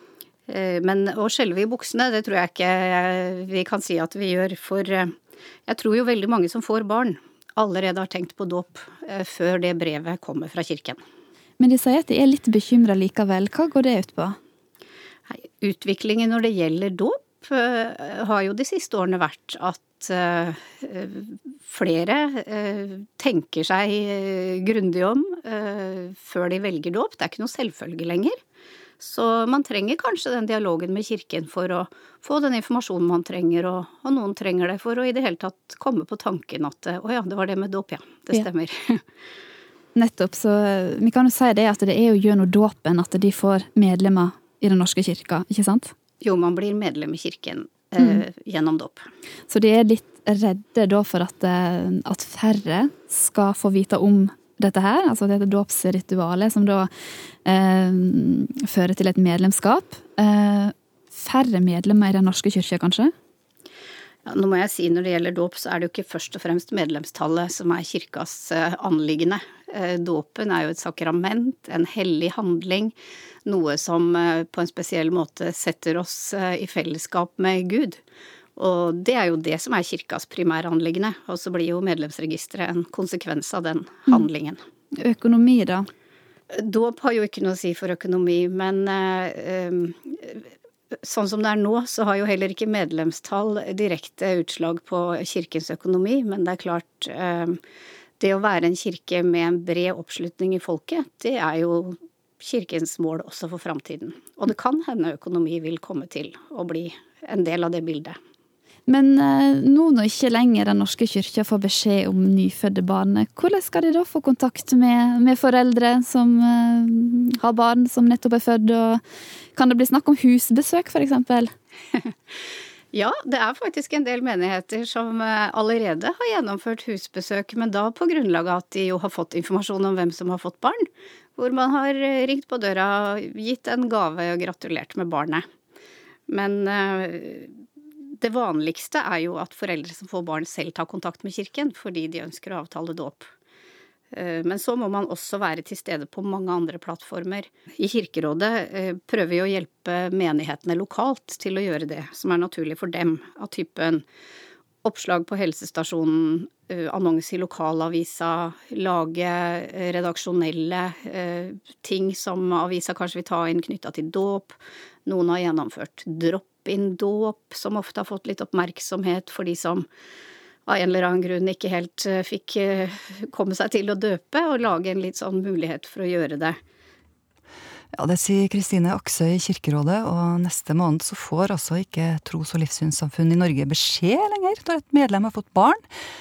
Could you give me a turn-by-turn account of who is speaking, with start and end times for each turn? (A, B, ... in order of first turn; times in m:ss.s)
0:00.5-0:11.0 A
0:11.6-0:14.4 B
0:15.3-0:28.4 A
0:29.0-0:39.0 A
0:39.9-0:45.9 B
0:46.2-0:49.0 A
0:48.0-0:48.2 B
0:49.5-0:56.9 B
0:57.4-1:03.1 B
1:04.3-1:12.9 A
1:13.4-1:18.0 A
1:18.6-1:24.6 A
1:24.9-1:25.9 B
1:26.6-1:30.5 A
1:31.0-1:37.6 A
1:38.2-1:48.2 A
1:48.9-1:59.0 B
1:59.5-2:01.5 B
2:02.9-2:15.4 A
2:16.3-2:17.6 A
2:18.2-2:23.3 A
2:24.1-2:34.0 A
2:34.8-2:49.9 A
2:50.7-2:56.6 A
2:57.9-3:05.9 C